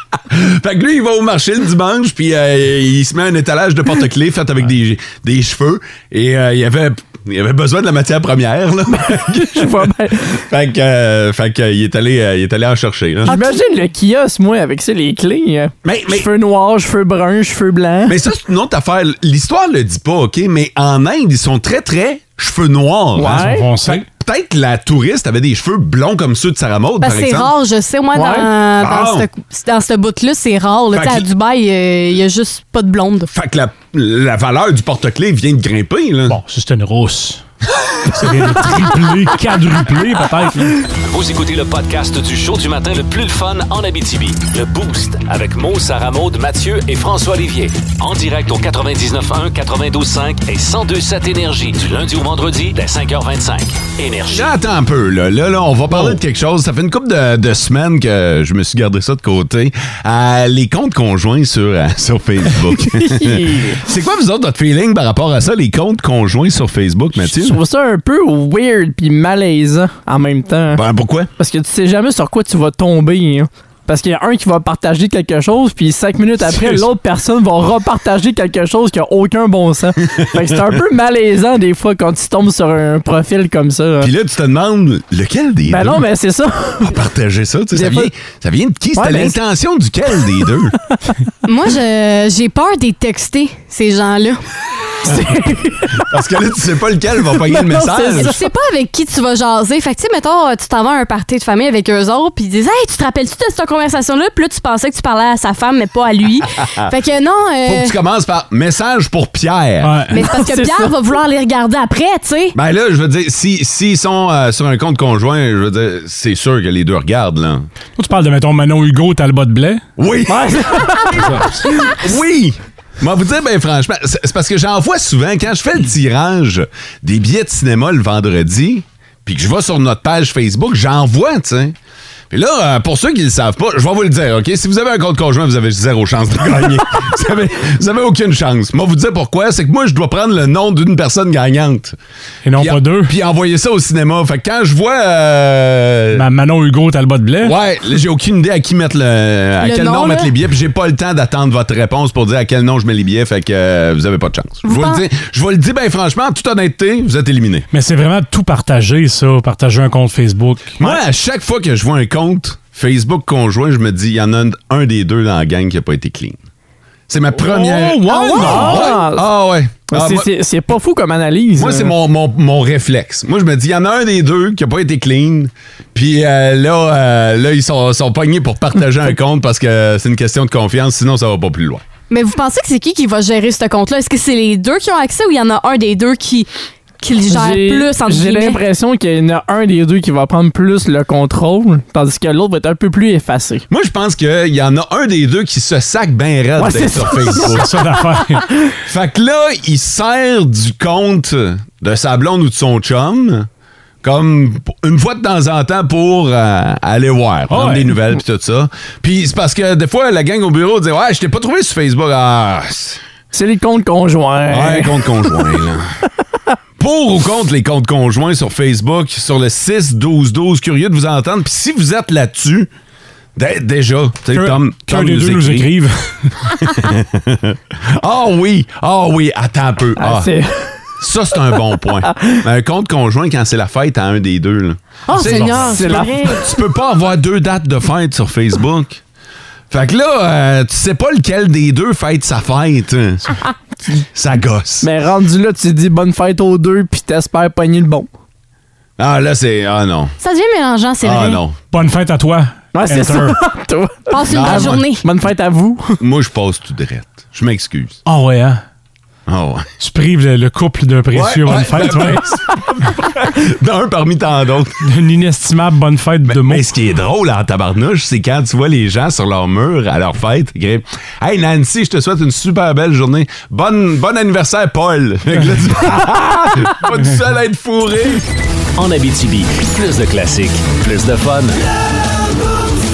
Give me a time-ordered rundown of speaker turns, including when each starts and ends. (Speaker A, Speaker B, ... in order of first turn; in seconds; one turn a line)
Speaker A: 0.3-13.3
Speaker B: 9.3-10.4
Speaker B: 13.2-18.2
Speaker C: 13.3-13.6
Speaker A: 15.8-16.3
Speaker A: 18.1-27.5
Speaker B: 23.2-23.7
Speaker D: 23.2-24.1
Speaker C: 27.0-33.3
Speaker B: 28.1-28.5
Speaker A: 28.8-29.3
Speaker A: 30.9-31.3
Speaker A: 33.3-36.4
Speaker D: 36.3-37.4
Speaker D: 38.1-40.8
Speaker E: 41.0-54.5
Speaker A: 54.3-67.6
Speaker B: 62.9-63.8
Speaker B: 67.2-70.8
Speaker A: 70.7-71.3
Speaker B: 71.4-84.1
Speaker A: 84.0-86.0
Speaker B: 85.7-86.9
Speaker A: 86.8-90.7
Speaker B: 87.7-88.1
Speaker B: 89.0-89.3
Speaker C: 91.4-94.4
Speaker B: 95.0-96.0
Speaker A: 96.0-98.3
Speaker B: 97.4-98.4
Speaker C: 98.2-107.9
Speaker A: 107.6-110.0
Speaker D: 109.8-110.2
Speaker C: 110.1-112.5
Speaker B: 110.2-110.9
Speaker A: 112.5-117.7
Speaker D: 118.0-119.8
Speaker A: 120.0-131.7
Speaker B: 120.3-121.1
Speaker D: 121.2-121.6
Speaker A: 132.3-141.9
Speaker D: 142.4-143.1
Speaker A: 142.6-146.2
Speaker D: 146.1-147.5
Speaker A: 147.4-157.7
Speaker C: 149.6-150.3
Speaker C: 154.6-155.0
Speaker D: 157.7-160.9
Speaker A: 160.8-166.4
Speaker A: 167.1-170.3
Speaker D: 167.4-168.9
Speaker B: 168.1-169.2
Speaker B: 169.9-171.9
Speaker A: 171.6-181.8
Speaker C: 182.1-186.5
Speaker C: 187.0-188.6
Speaker B: 187.3-193.7
Speaker A: 193.7-197.7
Speaker B: 196.6-198.4
Speaker D: 197.4-198.5
Speaker A: 198.8-203.5
Speaker A: 204.0-213.0
Speaker D: 207.5-207.9
Speaker B: 213.3-215.5
Speaker A: 214.5-215.9
Speaker A: 216.8-222.7
Speaker A: 223.3-225.7
Speaker D: 224.3-226.5
Speaker A: 226.6-230.3
Speaker B: 230.0-230.8
Speaker A: 231.0-239.0
Speaker B: 232.1-232.4
Speaker C: 235.1-236.4
Speaker B: 235.6-236.4
Speaker A: 239.7-243.3
Speaker A: 244.1-244.9
Speaker B: 244.8-248.1
Speaker A: 249.0-250.1
Speaker C: 250.2-251.4
Speaker A: 251.0-251.6
Speaker D: 251.7-253.4
Speaker B: 252.7-256.0
Speaker C: 254.1-255.0
Speaker A: 254.3-254.8
Speaker A: 256.0-258.0
Speaker D: 258.1-258.6
Speaker A: 259.3-259.7
Speaker D: 259.8-262.3
Speaker A: 261.1-264.8
Speaker D: 264.8-266.6
Speaker A: 266.2-278.2
Speaker E: 278.8-281.6